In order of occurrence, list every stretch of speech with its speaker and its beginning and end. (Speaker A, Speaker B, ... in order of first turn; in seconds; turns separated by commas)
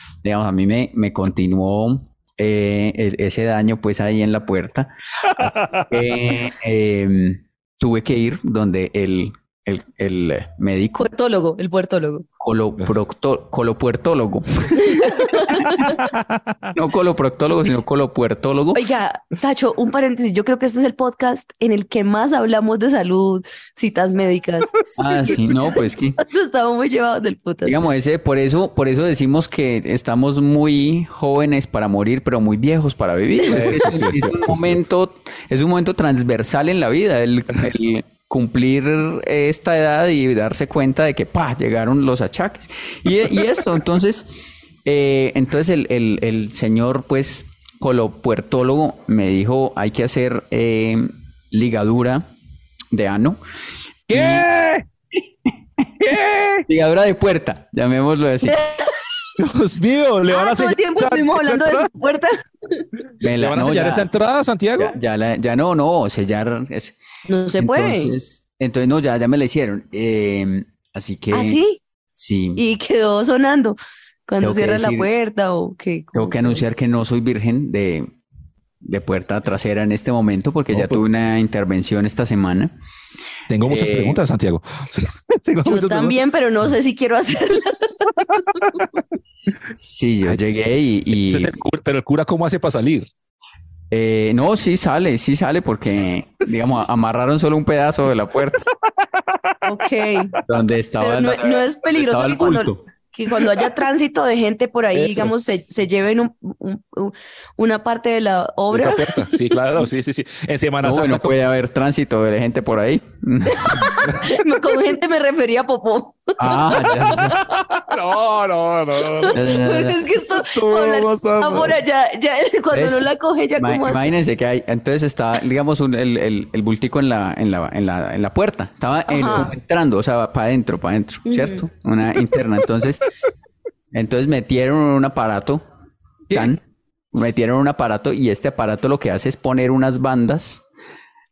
Speaker A: 0.2-11.1, Speaker B: 5.4-6.1, Speaker C: 11.0-12.2, Speaker A: 12.4-15.9, Speaker C: 14.8-16.1, Speaker B: 16.1-16.6, Speaker A: 16.7-18.8, Speaker C: 18.7-27.8, Speaker A: 25.0-26.2, Speaker A: 27.6-44.3, Speaker B: 33.5-34.8, Speaker A: 44.9-52.3, Speaker A: 52.9-53.4, Speaker B: 54.1-54.9, Speaker A: 54.1-54.5, Speaker B: 56.0-56.7, Speaker A: 56.7-58.7, Speaker C: 58.5-58.9, Speaker B: 59.4-61.9, Speaker C: 60.3-62.8, Speaker A: 63.2-64.1, Speaker B: 63.2-65.0, Speaker A: 64.8-67.0, Speaker C: 67.3-68.1, Speaker A: 67.6-71.6, Speaker C: 71.3-71.8, Speaker A: 72.2-72.6, Speaker C: 72.6-76.6, Speaker A: 74.4-75.1, Speaker A: 76.2-78.1, Speaker A: 78.8-82.7, Speaker B: 80.7-81.0, Speaker B: 83.5-86.2, Speaker A: 83.7-84.2, Speaker C: 85.7-88.7, Speaker A: 89.8-91.6, Speaker B: 91.2-93.1, Speaker A: 93.9-98.7, Speaker B: 96.5-96.8, Speaker C: 99.7-100.3, Speaker A: 100.5-102.8, Speaker C: 101.0-109.1, Speaker B: 104.9-105.3, Speaker B: 108.7-111.4, Speaker A: 110.8-114.0, Speaker C: 113.7-117.7, Speaker A: 116.4-117.4, Speaker B: 117.5-119.4, Speaker C: 119.2-124.1, Speaker A: 119.3-120.1, Speaker B: 120.5-121.8, Speaker A: 122.7-133.1, Speaker C: 129.1-129.5, Speaker C: 131.3-131.6, Speaker A: 133.9-135.6, Speaker B: 136.3-136.6, Speaker A: 136.3-136.6, Speaker A: 137.1-140.6